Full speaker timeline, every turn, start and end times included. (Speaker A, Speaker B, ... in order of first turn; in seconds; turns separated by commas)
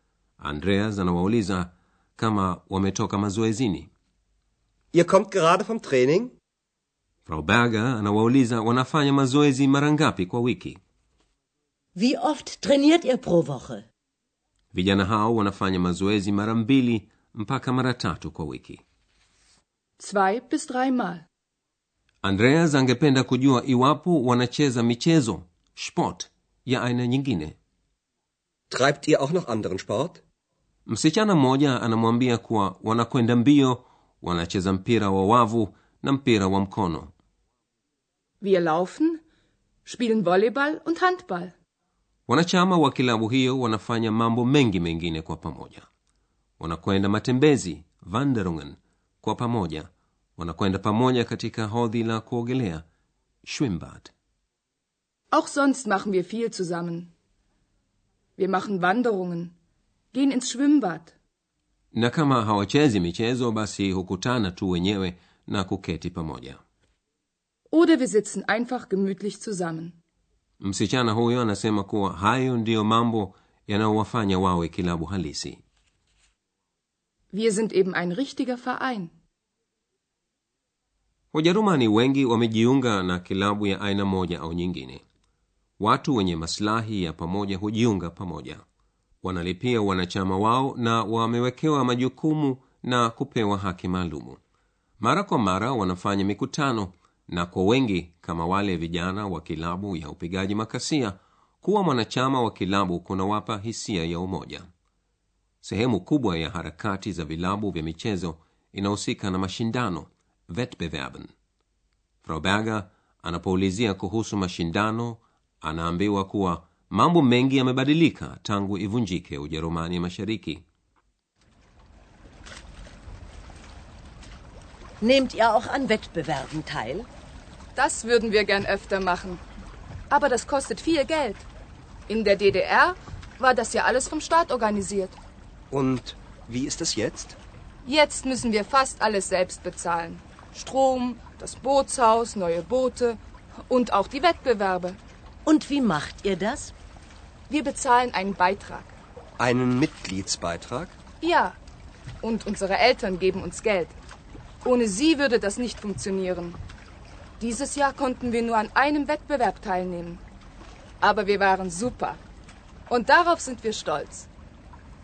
Speaker A: 0.4-3.9, Speaker B: 4.9-6.3, Speaker A: 7.2-10.8, Speaker C: 11.9-13.8, Speaker A: 14.7-18.8, Speaker D: 20.0-21.2, Speaker A: 22.2-27.5, Speaker B: 28.7-30.2, Speaker A: 30.9-37.1, Speaker D: 38.4-39.2, Speaker D: 39.8-41.5, Speaker A: 42.3-45.9, Speaker A: 46.6-52.8, Speaker A: 53.4-54.1, Speaker D: 55.3-57.1, Speaker D: 58.4-59.5, Speaker D: 60.1-61.1, Speaker A: 61.9-66.6, Speaker D: 67.7-70.0, Speaker A: 70.6-75.6, Speaker D: 77.3-79.1, Speaker A: 81.3-85.0, Speaker A: 85.8-88.6, Speaker A: 89.2-94.4, Speaker A: 95.0-104.7, Speaker A: 105.6-111.3, Speaker A: 112.2-120.6, Speaker C: 125.0-127.1, Speaker D: 127.7-129.4, Speaker D: 130.1-131.5, Speaker D: 132.1-135.2, Speaker B: 135.7-137.4, Speaker D: 137.8-145.0, Speaker C: 145.4-146.7, Speaker D: 147.5-148.9, Speaker B: 149.4-150.9, Speaker D: 151.2-151.6, Speaker D: 152.2-153.9, Speaker D: 154.6-156.6, Speaker D: 157.4-160.2, Speaker D: 161.0-162.2, Speaker D: 162.9-164.3